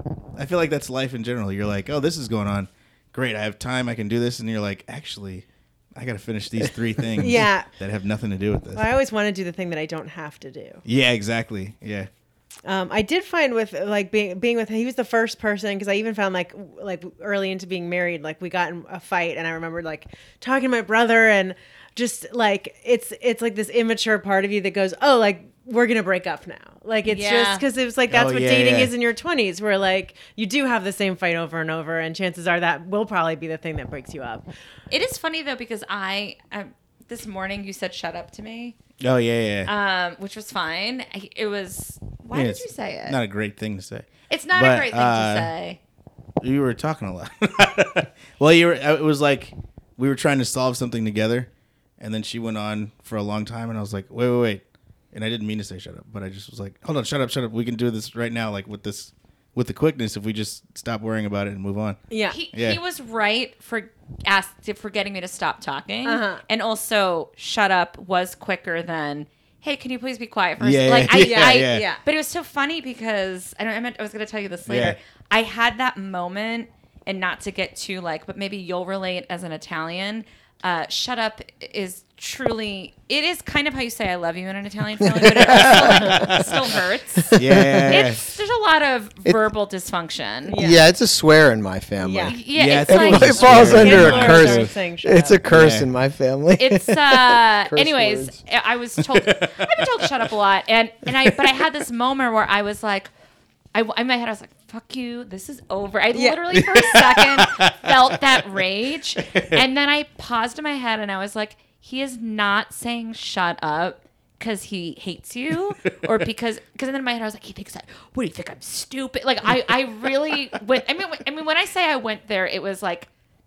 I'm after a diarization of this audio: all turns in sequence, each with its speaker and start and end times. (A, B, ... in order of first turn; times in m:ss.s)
0:00.3-0:08.8 A
0:07.2-0:07.7 B
0:08.7-0:10.8 B
0:10.8-0:12.1 A
0:12.6-0:34.4 B
0:27.0-0:27.6 C
0:28.1-0:28.9 A
0:34.9-0:38.8 C
0:39.0-0:39.7 A
0:39.6-0:43.2 C
0:42.3-0:45.5 A
0:44.3-0:45.8 C
0:46.4-1:02.0 A
1:02.1-1:02.4 B
1:02.3-1:30.6 C
1:02.5-1:02.8 A
1:06.0-1:06.4 B
1:10.6-1:11.9 A
1:11.1-1:12.0 B
1:14.7-1:15.0 A
1:25.2-1:26.2 D
1:25.7-1:26.5 A
1:27.3-1:28.0 D
1:27.3-1:28.2 A
1:30.5-1:30.8 B
1:30.5-1:38.4 D
1:32.0-1:32.4 B
1:32.3-1:34.5 C
1:32.5-1:34.6 A
1:33.4-1:35.4 B
1:35.5-1:35.8 A
1:36.6-1:43.1 C
1:39.2-1:39.8 A
1:43.7-2:03.1 C
1:46.1-1:46.6 B
1:46.7-1:47.9 A
1:49.3-1:49.6 A